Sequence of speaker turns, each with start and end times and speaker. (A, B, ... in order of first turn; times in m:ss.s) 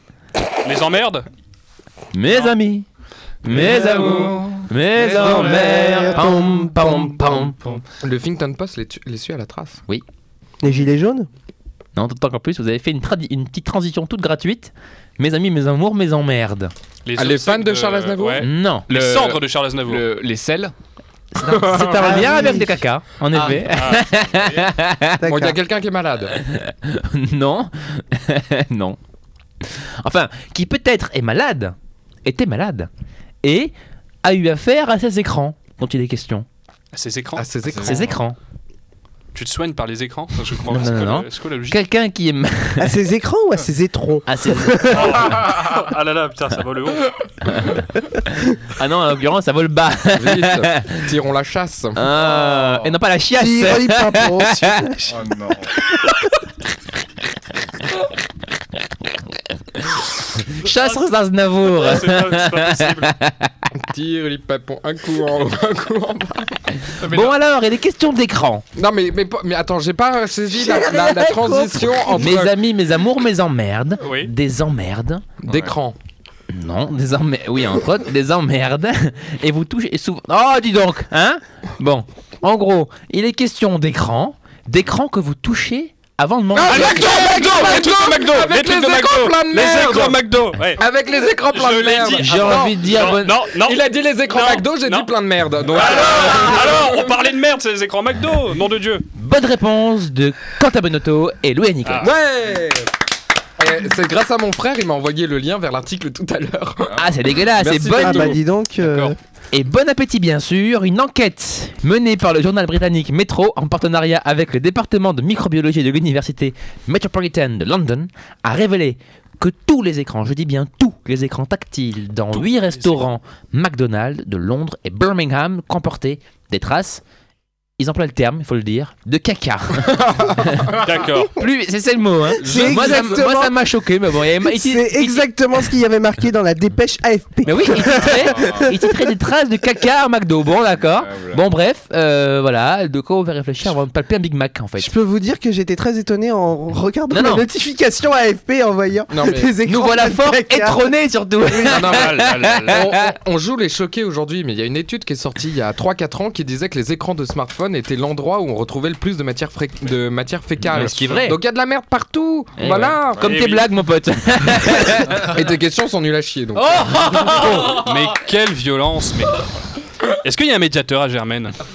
0:00.6-0:01.2 A
0:02.1-0:02.8 B
0:03.4-0:07.8 B
0:03.5-0:06.2 C
0:03.6-0:03.9 D
0:05.1-0:07.4 E
0:08.0-0:09.8 D
0:10.6-0:11.3 E
0:11.9-0:16.7 B
0:17.0-0:20.0 A
0:17.2-0:18.5 D
0:18.4-0:18.9 B
0:18.9-0:20.7 C
0:21.3-0:25.2 B
0:21.4-0:22.5 D
0:21.8-0:22.8 E
0:23.3-0:24.8 C
0:23.7-0:24.0 A
0:25.2-0:25.6 E
0:25.2-0:26.4 D
0:26.3-0:29.0 B
0:29.6-0:32.9 B
0:33.4-0:33.7 B
0:34.2-0:36.4 B
0:36.9-0:37.7 A
0:37.4-0:38.0 D
0:37.4-0:38.1 C
0:37.8-0:38.4 B
0:39.3-0:41.8 A
0:40.7-0:43.0 B
0:42.8-0:45.3 E
0:44.3-0:45.2 B
0:44.9-0:47.1 A
0:48.6-0:51.1 B
0:50.1-0:52.0 D
0:52.0-0:55.0 B
0:52.2-0:52.9 C
0:53.3-0:55.1 E
0:55.0-0:55.7 C
0:59.0-1:03.6 B
1:00.6-1:01.1 A
1:01.6-1:03.1 A
1:03.8-1:06.6 D
1:06.8-1:08.6 B
1:07.0-1:07.3 A
1:08.8-1:12.6 D
1:10.6-1:12.2 E
1:12.1-1:15.2 B
1:14.0-1:14.3 A
1:15.4-1:16.0 D
1:15.4-1:15.7 C
1:16.5-1:27.2 B
1:26.5-1:30.2 D
1:26.7-1:30.8 A
1:30.8-1:37.1 D
1:31.5-1:35.1 A
1:32.2-1:33.4 B
1:35.7-1:39.1 A
1:39.1-1:42.1 B
1:41.8-1:42.1 A
1:42.0-1:42.9 D
1:43.6-1:48.4 D
1:46.8-1:47.2 C
1:47.0-1:48.4 B
1:48.0-1:49.2 E
1:48.8-1:49.1 A
1:49.5-2:07.0 B
2:02.3-2:03.0 A
2:07.8-2:15.3 B
2:09.9-2:10.8 D
2:10.8-2:11.3 A
2:12.4-2:13.6 E
2:12.4-2:13.2 C
2:14.4-2:19.1 E
2:17.4-2:24.9 B
2:17.8-2:18.7 C
2:20.7-2:21.4 C
2:24.8-2:30.9 E
2:27.1-2:27.4 B
2:29.1-2:29.5 D
2:29.6-2:33.1 B
2:31.5-2:43.2 D
2:31.8-2:32.9 A
2:40.6-2:41.4 B
2:42.6-2:45.3 B
2:43.2-2:43.7 A
2:45.1-2:47.8 D
2:46.7-2:47.8 B
2:47.5-2:49.4 A
2:50.1-2:51.6 A